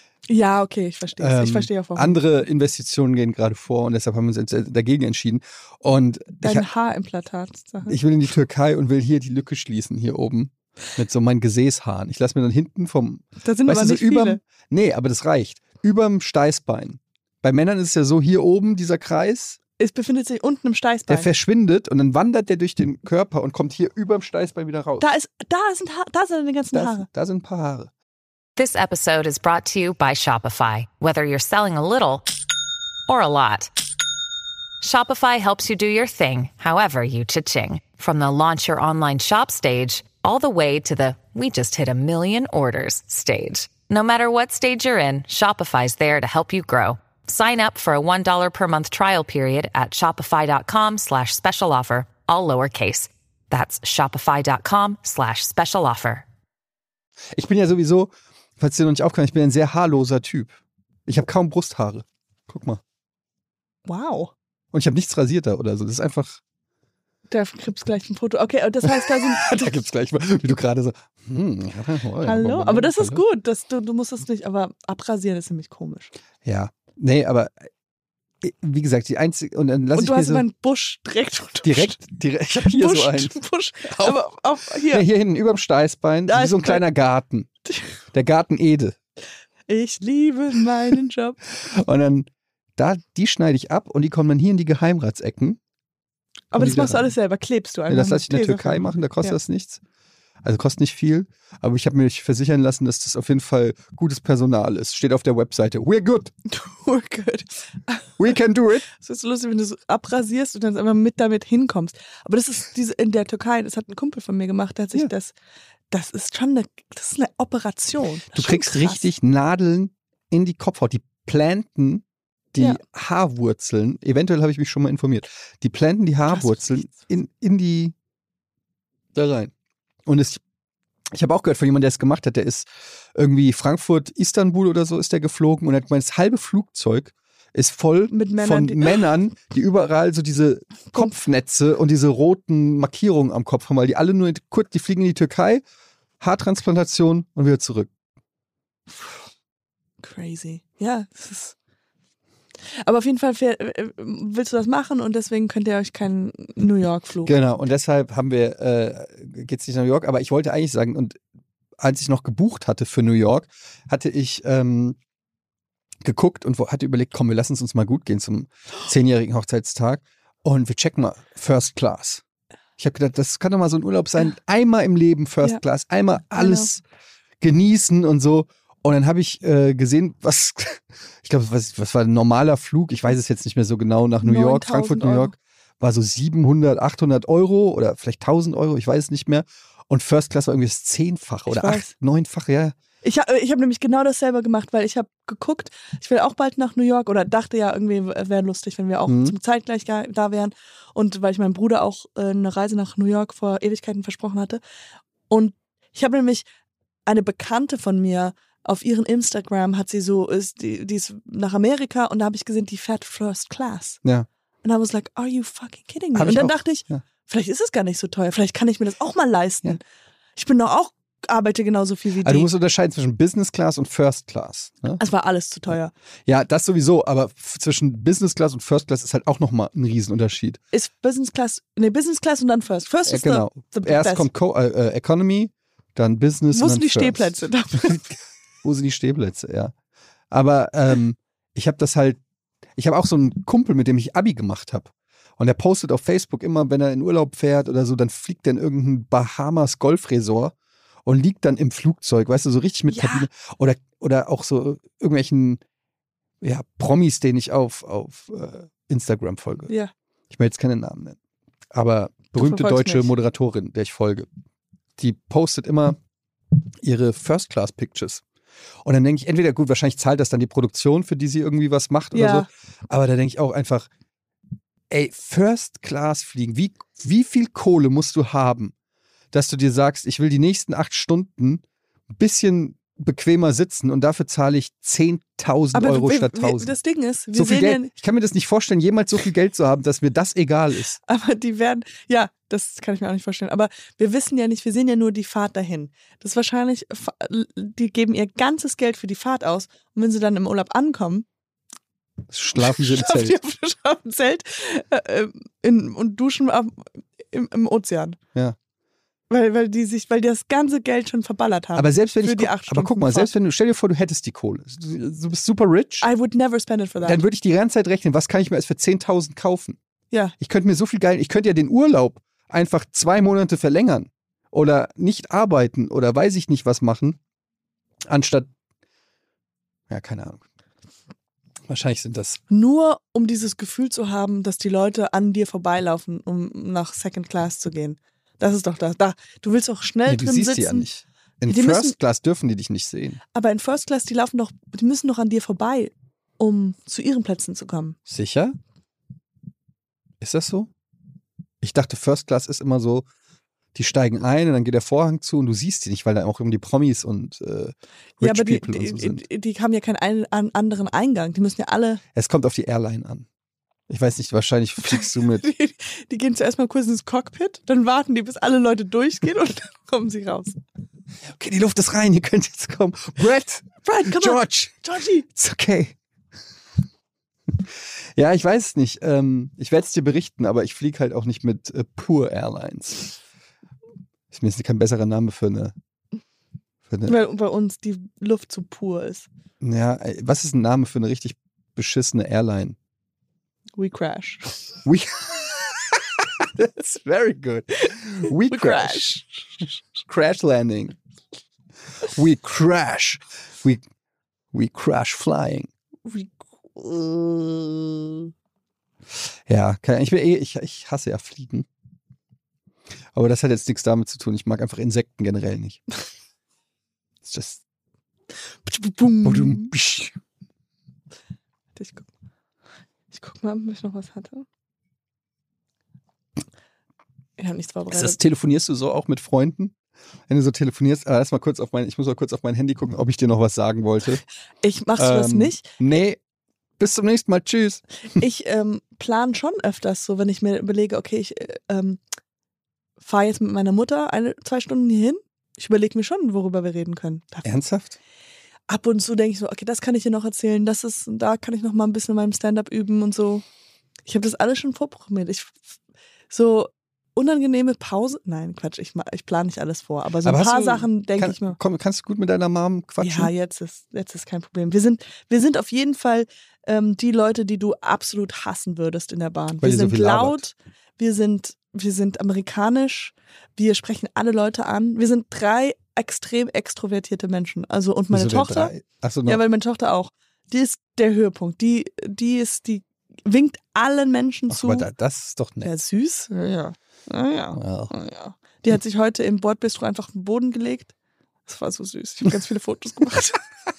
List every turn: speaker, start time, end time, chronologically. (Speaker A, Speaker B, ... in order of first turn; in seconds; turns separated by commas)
Speaker A: 0.3-2.2, Speaker B: 1.2-6.7, Speaker A: 6.4-8.0, Speaker B: 7.9-19.6, Speaker A: 13.4-14.4, Speaker A: 19.8-21.3, Speaker B: 21.1-25.1, Speaker A: 25.0-27.1, Speaker B: 26.7-27.9, Speaker C: 28.6-32.3, Speaker C: 33.1-33.7, Speaker C: 34.8-56.2, Speaker B: 57.3-62.8, Speaker A: 63.9-64.3, Speaker B: 64.7-66.4, Speaker A: 67.3-69.8, Speaker B: 68.8-73.2, Speaker A: 72.2-76.1, Speaker B: 76.4-77.6, Speaker B: 78.4-80.5, Speaker A: 80.0-82.0, Speaker B: 81.6-84.2, Speaker A: 82.6-85.1, Speaker B: 84.9-87.5, Speaker A: 86.3-86.8, Speaker B: 88.1-89.0, Speaker A: 89.7-91.4, Speaker B: 91.7-95.6, Speaker A: 96.5-99.4, Speaker B: 96.6-97.1, Speaker B: 97.9-99.8, Speaker B: 100.4-106.3, Speaker A: 106.5-108.2, Speaker B: 108.2-108.9, Speaker A: 108.9-115.3, Speaker A: 115.9-119.1, Speaker B: 118.3-128.0, Speaker A: 126.3-127.0, Speaker B: 129.1-129.5, Speaker B: 130.1-130.4, Speaker B: 131.1-145.6, Speaker A: 138.1-139.0, Speaker A: 140.9-141.2, Speaker B: 146.2-147.9, Speaker A: 150.0-151.6, Speaker A: 152.8-157.3, Speaker B: 157.2-161.2, Speaker B: 161.8-165.0, Speaker B: 166.0-172.2, Speaker B: 172.8-176.8, Speaker A: 176.3-176.7, Speaker B: 177.4-192.8, Speaker A: 184.2-185.3, Speaker A: 191.5-191.9, Speaker A: 193.0-204.6, Speaker B: 199.1-199.4, Speaker A: 205.3-206.4, Speaker A: 207.1-214.0, Speaker A: 214.6-219.8, Speaker B: 216.1-217.0, Speaker A: 220.4-222.5, Speaker B: 222.2-225.0, Speaker A: 225.0-225.9, Speaker B: 226.3-230.6, Speaker A: 230.7-234.3, Speaker B: 233.1-239.7, Speaker A: 236.5-238.1, Speaker B: 240.3-242.2, Speaker B: 242.8-255.6, Speaker A: 252.9-253.3, Speaker B: 256.4-259.7, Speaker B: 260.3-261.2, Speaker B: 261.7-264.3, Speaker A: 262.4-263.1, Speaker B: 265.0-266.0, Speaker B: 266.8-268.2, Speaker B: 268.8-273.9, Speaker A: 272.1-272.5, Speaker B: 274.9-278.7, Speaker B: 279.3-286.7, Speaker A: 285.7-287.9, Speaker B: 287.3-291.0, Speaker A: 291.1-301.3, Speaker B: 302.3-303.4, Speaker A: 302.6-308.2, Speaker A: 309.3-313.3, Speaker B: 311.8-316.1, Speaker A: 316.0-317.2, Speaker B: 317.0-319.8, Speaker B: 320.4-327.2, Speaker B: 328.1-328.5, Speaker B: 329.9-330.4, Speaker B: 331.7-332.4, Speaker A: 332.5-340.9, Speaker B: 340.1-343.2, Speaker A: 341.5-341.9, Speaker A: 343.3-348.0, Speaker B: 348.1-348.6, Speaker B: 350.2-350.7, Speaker B: 351.6-353.1, Speaker B: 353.7-359.2, Speaker A: 358.2-362.0, Speaker B: 362.1-363.3, Speaker B: 363.9-365.4, Speaker A: 364.8-370.6, Speaker B: 371.2-375.9, Speaker A: 373.9-375.2, Speaker B: 377.5-383.1, Speaker B: 384.3-385.8, Speaker B: 386.9-387.2, Speaker A: 387.1-389.3, Speaker B: 389.6-392.8, Speaker A: 393.8-394.7, Speaker B: 394.9-399.1, Speaker A: 397.8-399.5, Speaker B: 400.0-401.0, Speaker B: 402.0-403.8, Speaker B: 404.5-405.7, Speaker A: 406.1-408.3, Speaker B: 409.5-411.7, Speaker B: 413.1-415.8, Speaker B: 417.2-417.6, Speaker A: 418.6-419.7, Speaker B: 419.2-420.1, Speaker A: 421.8-422.1, Speaker A: 423.1-424.4, Speaker A: 427.4-428.2, Speaker B: 427.9-429.7, Speaker B: 430.3-434.2, Speaker A: 434.6-435.7, Speaker B: 435.0-436.2, Speaker B: 436.8-437.8, Speaker A: 438.1-442.0, Speaker A: 443.0-447.4, Speaker B: 447.4-448.0, Speaker A: 448.7-453.4, Speaker A: 454.1-455.6, Speaker A: 456.3-461.6, Speaker B: 460.2-463.3, Speaker A: 463.0-478.7, Speaker B: 469.6-470.4, Speaker B: 478.1-479.4, Speaker A: 479.3-484.9, Speaker B: 484.5-485.7, Speaker A: 485.6-490.9, Speaker B: 487.5-487.9, Speaker A: 491.4-493.5